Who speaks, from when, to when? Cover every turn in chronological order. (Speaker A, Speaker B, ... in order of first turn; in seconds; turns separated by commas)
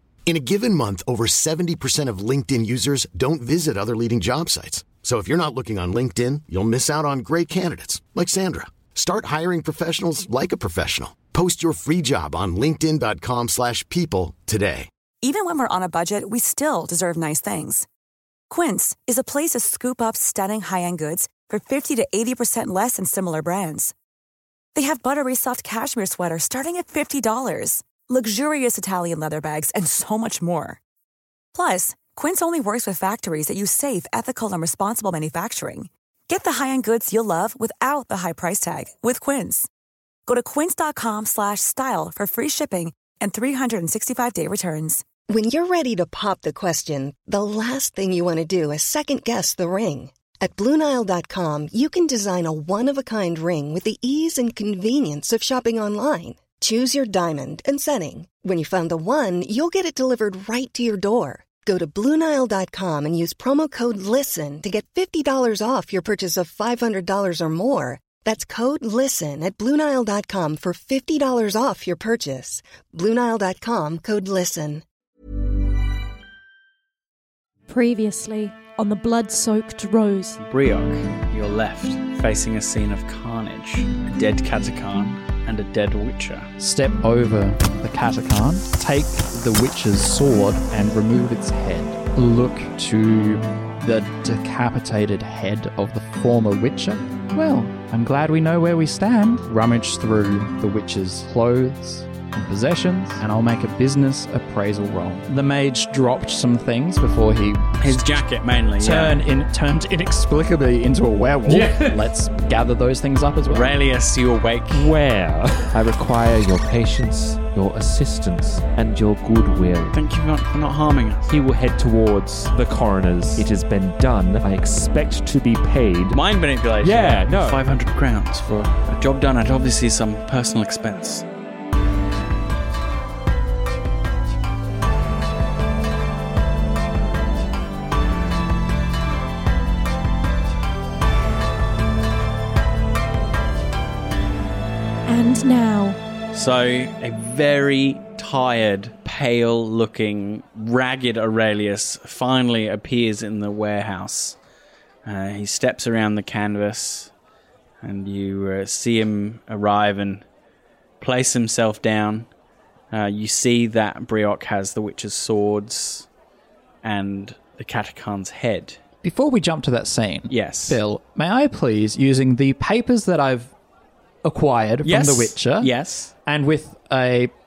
Speaker A: 0.3-14.9, Speaker B: 15.2-17.9, Speaker B: 18.5-23.9, Speaker B: 24.7-30.8, Speaker B: 31.5-39.7, Speaker B: 40.3-45.0, Speaker C: 45.3-74.8, Speaker D: 77.7-80.4, Speaker E: 80.4-86.5, Speaker F: 86.6-108.0, Speaker E: 107.8-109.2, Speaker F: 108.8-113.8, Speaker G: 111.5-112.1, Speaker E: 113.5-114.9, Speaker G: 114.7-120.0, Speaker E: 119.9-121.3, Speaker G: 121.3-126.2, Speaker E: 126.1-131.3, Speaker G: 126.8-127.6, Speaker D: 145.1-146.0, Speaker E: 146.3-154.4, Speaker E: 155.1-157.1, Speaker E: 157.8-160.2, Speaker E: 161.0-162.3, Speaker E: 162.9-166.1, Speaker E: 166.8-168.8, Speaker F: 169.0-173.5, Speaker E: 170.3-170.8, Speaker F: 174.2-175.7, Speaker E: 174.8-176.1, Speaker F: 176.3-177.3